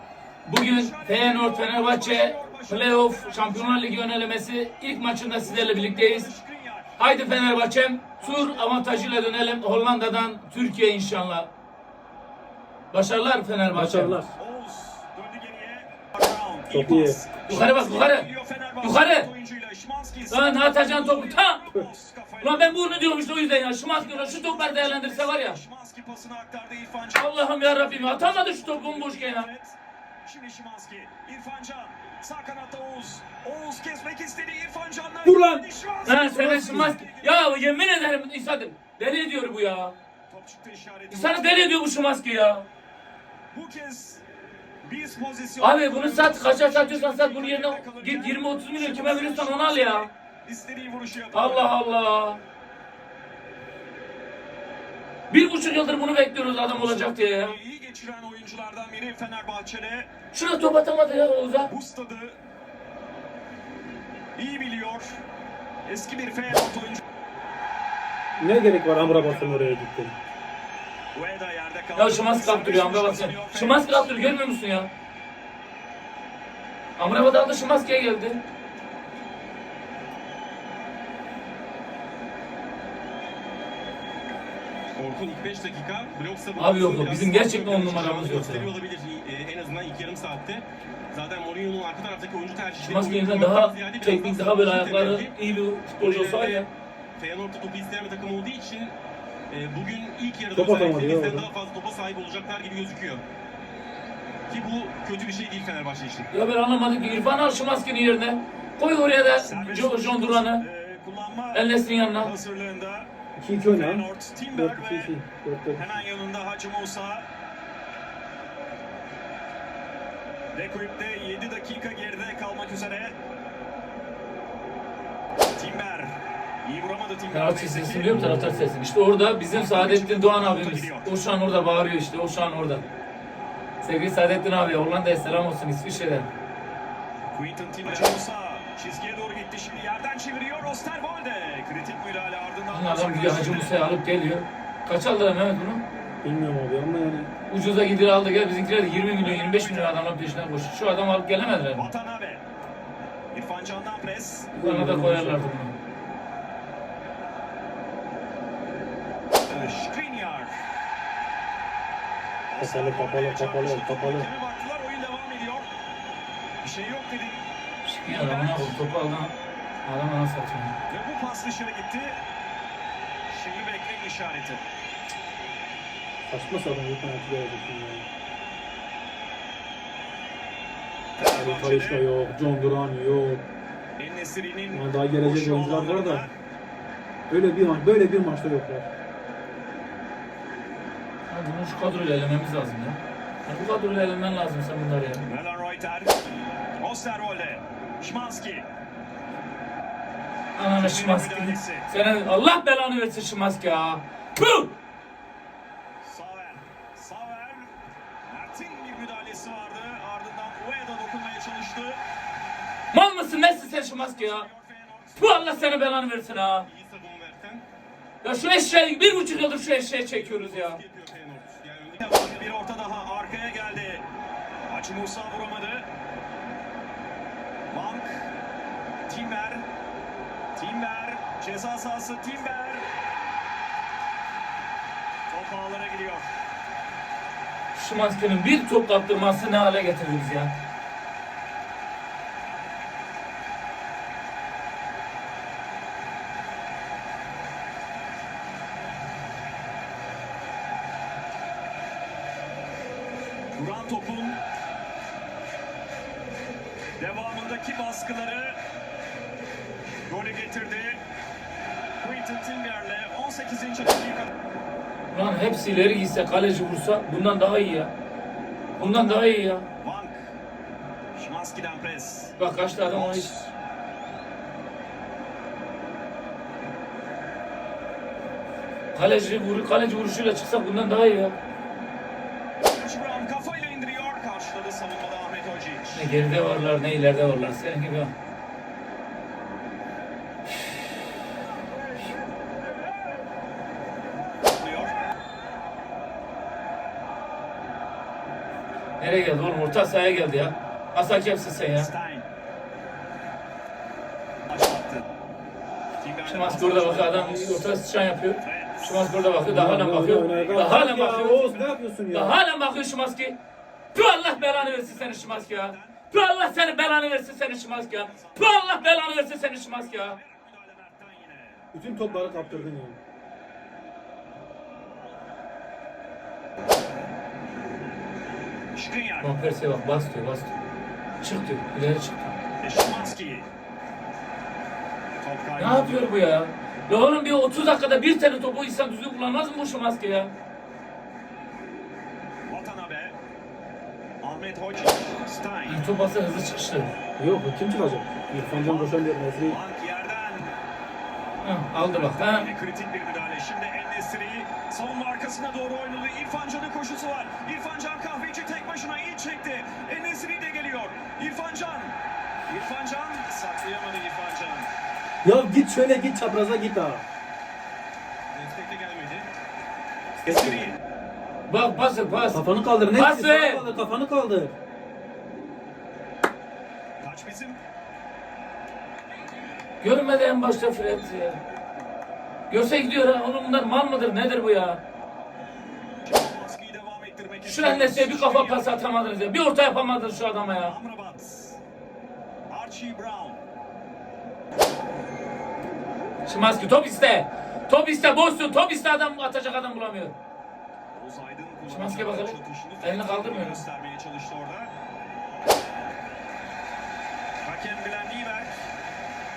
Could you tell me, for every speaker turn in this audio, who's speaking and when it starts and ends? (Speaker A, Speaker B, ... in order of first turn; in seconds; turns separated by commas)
Speaker A: 0.4-6.3, Speaker B: 0.6-4.0, Speaker B: 5.4-7.0, Speaker A: 7.0-11.5, Speaker B: 8.2-9.4, Speaker A: 12.9-14.2, Speaker C: 13.7-14.3, Speaker B: 14.3-23.1, Speaker C: 16.7-17.2, Speaker A: 17.5-18.3, Speaker A: 18.8-19.3, Speaker A: 20.3-21.6, Speaker A: 22.4-25.6, Speaker B: 23.9-37.4, Speaker A: 27.1-29.5, Speaker C: 35.2-35.6, Speaker A: 36.0-39.9, Speaker C: 36.4-37.0, Speaker B: 40.3-41.6, Speaker A: 41.1-42.6, Speaker B: 43.5-44.2, Speaker B: 44.8-51.7, Speaker A: 45.6-50.1, Speaker A: 51.3-52.4, Speaker A: 55.3-57.5, Speaker B: 56.6-60.1, Speaker A: 60.3-61.7, Speaker B: 61.6-62.4, Speaker B: 64.3-65.2, Speaker B: 65.8-67.0, Speaker C: 68.4-70.1, Speaker B: 69.0-69.8, Speaker B: 71.1-74.3, Speaker A: 72.0-74.9, Speaker A: 77.0-78.4, Speaker D: 85.0-95.3, Speaker A: 86.6-88.7, Speaker A: 92.8-96.7, Speaker D: 96.0-99.0, Speaker D: 99.5-103.2, Speaker C: 100.5-101.5, Speaker D: 104.5-106.3, Speaker A: 106.3-110.6, Speaker B: 109.4-113.1, Speaker A: 111.5-112.3, Speaker C: 113.3-116.0, Speaker B: 113.6-115.2, Speaker B: 115.7-117.3, Speaker B: 120.5-123.2, Speaker B: 125.6-128.2, Speaker A: 127.3-132.8, Speaker C: 128.1-128.7, Speaker B: 129.5-131.1, Speaker A: 133.8-136.3, Speaker B: 137.3-143.8, Speaker A: 142.7-145.8, Speaker C: 146.2-147.3, Speaker A: 147.5-151.9, Speaker B: 149.1-150.1, Speaker B: 151.7-152.4, Speaker B: 153.3-154.5, Speaker C: 154.5-155.5, Speaker A: 154.6-155.7, Speaker B: 159.5-160.5, Speaker B: 162.5-165.7, Speaker C: 162.6-164.3, Speaker B: 166.6-167.4, Speaker A: 167.8-169.3, Speaker B: 168.0-168.8, Speaker A: 169.8-170.7, Speaker B: 170.9-172.2, Speaker B: 173.3-174.6, Speaker C: 176.2-178.1, Speaker B: 181.2-182.1, Speaker C: 181.3-183.4, Speaker B: 184.0-186.3, Speaker C: 184.7-186.3, Speaker C: 187.3-188.9, Speaker A: 191.3-195.2, Speaker B: 195.2-196.3, Speaker B: 196.8-198.7, Speaker A: 200.6-204.7, Speaker B: 200.8-201.9, Speaker B: 206.0-207.7, Speaker B: 208.2-212.0, Speaker A: 212.9-214.5, Speaker B: 213.6-215.6, Speaker A: 215.2-216.7, Speaker D: 216.7-217.6, Speaker A: 218.2-220.8, Speaker D: 219.6-222.3, Speaker B: 222.0-224.1, Speaker B: 224.7-225.9, Speaker B: 227.7-228.3, Speaker B: 229.1-229.6, Speaker B: 230.6-232.9, Speaker B: 235.3-236.3, Speaker A: 237.7-240.5, Speaker B: 253.5-254.4, Speaker B: 257.0-258.6, Speaker B: 260.1-261.0, Speaker B: 262.0-264.3, Speaker A: 265.1-267.9, Speaker B: 268.8-270.2, Speaker A: 268.8-269.6, Speaker B: 271.1-273.5, Speaker A: 272.4-273.3, Speaker A: 278.9-281.4, Speaker B: 282.6-286.1, Speaker A: 285.9-288.1, Speaker B: 294.5-294.9, Speaker A: 299.0-301.9, Speaker B: 301.7-302.3, Speaker B: 304.5-305.0, Speaker B: 306.0-307.6, Speaker A: 306.2-313.4, Speaker B: 308.4-309.2, Speaker C: 309.4-312.4, Speaker B: 310.0-311.1, Speaker A: 313.9-320.2, Speaker B: 314.3-316.0, Speaker B: 317.7-322.7, Speaker C: 321.7-323.0, Speaker B: 328.7-329.3, Speaker A: 329.2-330.5, Speaker A: 331.2-332.4, Speaker B: 332.6-333.5, Speaker B: 335.2-336.1, Speaker A: 335.6-340.3, Speaker B: 342.5-343.2, Speaker B: 344.2-345.9, Speaker A: 345.7-346.9, Speaker C: 347.2-349.6, Speaker B: 348.6-350.6, Speaker A: 351.4-352.5, Speaker B: 351.9-361.9, Speaker B: 362.5-364.7, Speaker C: 365.2-367.0, Speaker D: 368.3-369.3, Speaker C: 370.2-370.7, Speaker B: 370.2-370.8, Speaker A: 371.5-373.6, Speaker C: 372.3-374.5, Speaker B: 377.0-377.6, Speaker A: 379.8-381.4, Speaker A: 382.5-384.8, Speaker B: 386.0-388.8, Speaker A: 387.4-390.7, Speaker B: 390.6-391.6, Speaker B: 392.5-393.4, Speaker A: 396.2-400.1, Speaker B: 400.9-404.7, Speaker A: 401.7-403.6, Speaker B: 407.4-408.5